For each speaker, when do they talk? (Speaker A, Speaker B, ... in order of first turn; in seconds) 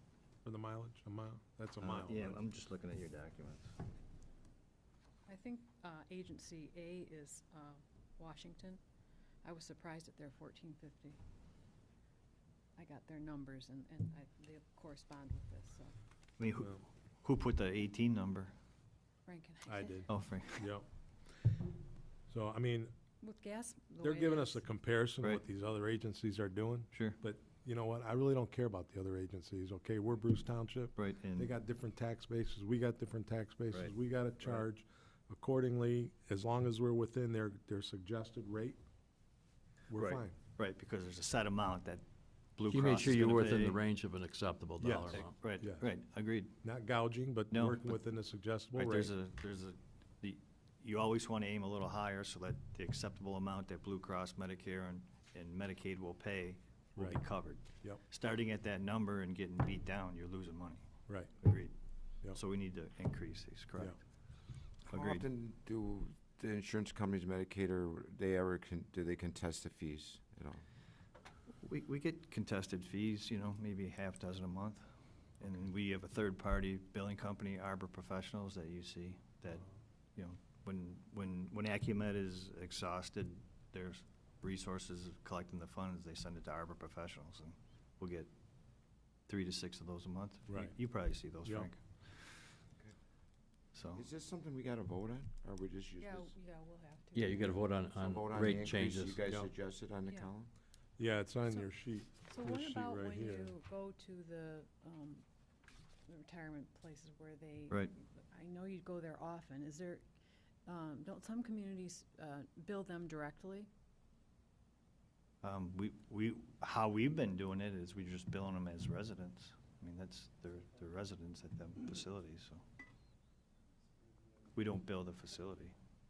Speaker A: 0.4-2.4, 19.7-20.9, 22.3-22.9, 24.0-38.8, 39.9-40.4, 44.8-45.9, 46.6-49.1, 57.0-57.2, 61.1-61.3, 90.5-90.8, 91.4-91.7, 101.0-103.6
Speaker B: 1.8-3.7, 16.4-18.5, 20.1-20.7, 26.9-27.2, 30.9-31.5, 33.7-34.6, 39.9-42.0, 42.5-43.8, 45.1-46.5, 47.5-48.0, 48.8-61.7, 62.3-64.0, 64.9-65.2, 71.6-74.8, 75.4-88.3, 89.3-92.4, 93.7-94.0, 115.4-122.6, 124.5-125.7
Speaker C: 5.3-8.8, 9.4-11.2, 12.8-15.9, 19.2-20.1, 23.2-24.6, 96.0-97.8, 100.0-100.3, 101.4-101.7, 102.3-105.2, 106.1-110.0, 110.7-113.7
Speaker D: 42.7-45.3, 97.1-99.5
Speaker E: 64.9-70.6, 93.9-96.3, 97.9-100.5